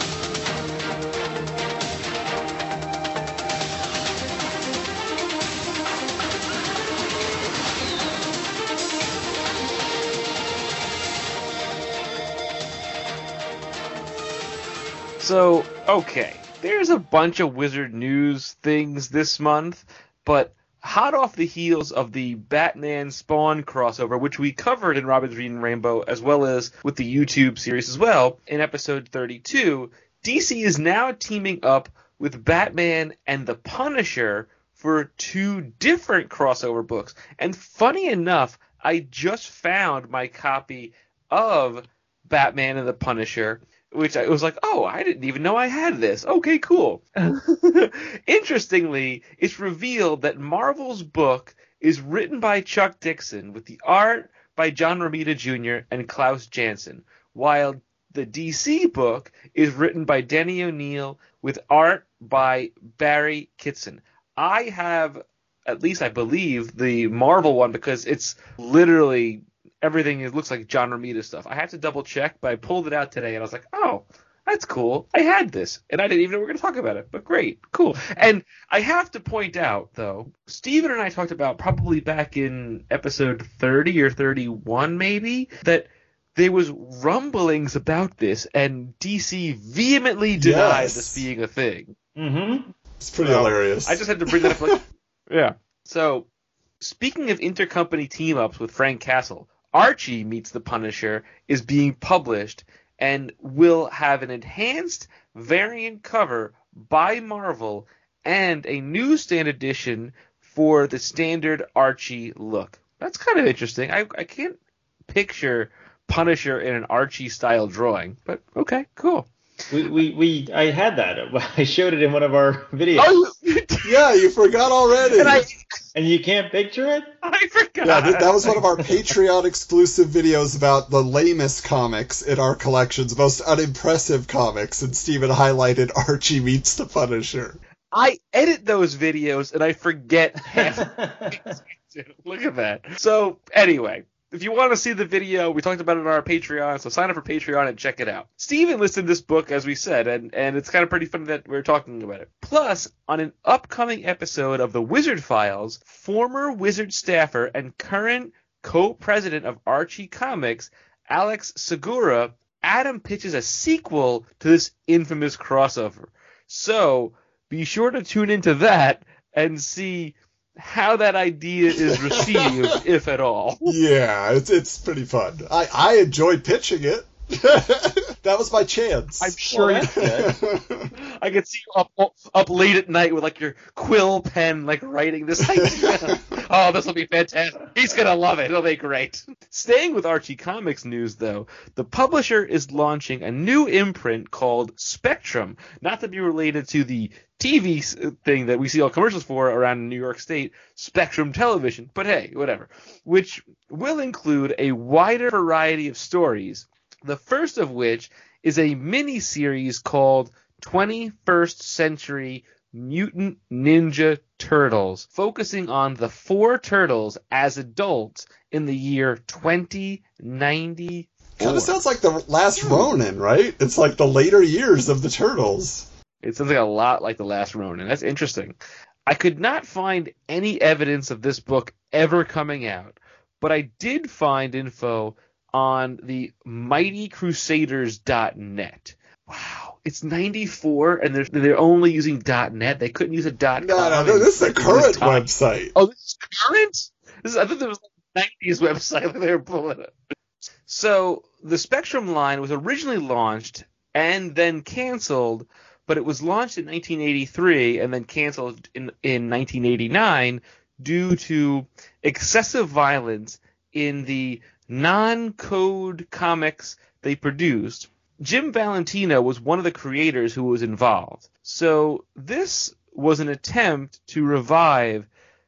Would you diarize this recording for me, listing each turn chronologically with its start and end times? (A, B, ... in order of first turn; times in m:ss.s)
0:15.2-1:31.9 A
1:30.4-1:31.2 B
1:32.2-1:32.7 C
1:33.0-1:34.8 B
1:33.2-1:36.3 A
1:36.8-1:54.6 A
1:55.1-1:59.3 A
1:59.7-2:03.2 C
2:03.0-2:04.0 A
2:03.8-2:05.4 B
2:05.2-2:05.7 A
2:05.9-2:07.1 C
2:07.2-2:08.9 A
2:07.8-2:17.6 B
2:17.9-2:53.8 A
2:20.5-2:21.5 C
2:51.8-2:52.5 B
2:53.6-3:00.9 B
2:59.2-3:00.3 A
2:59.5-3:00.0 C
3:01.0-3:41.7 A
3:05.4-3:06.2 B
3:41.4-3:45.9 B
3:46.2-4:09.9 A
4:03.6-4:05.7 B
4:10.6-4:35.1 A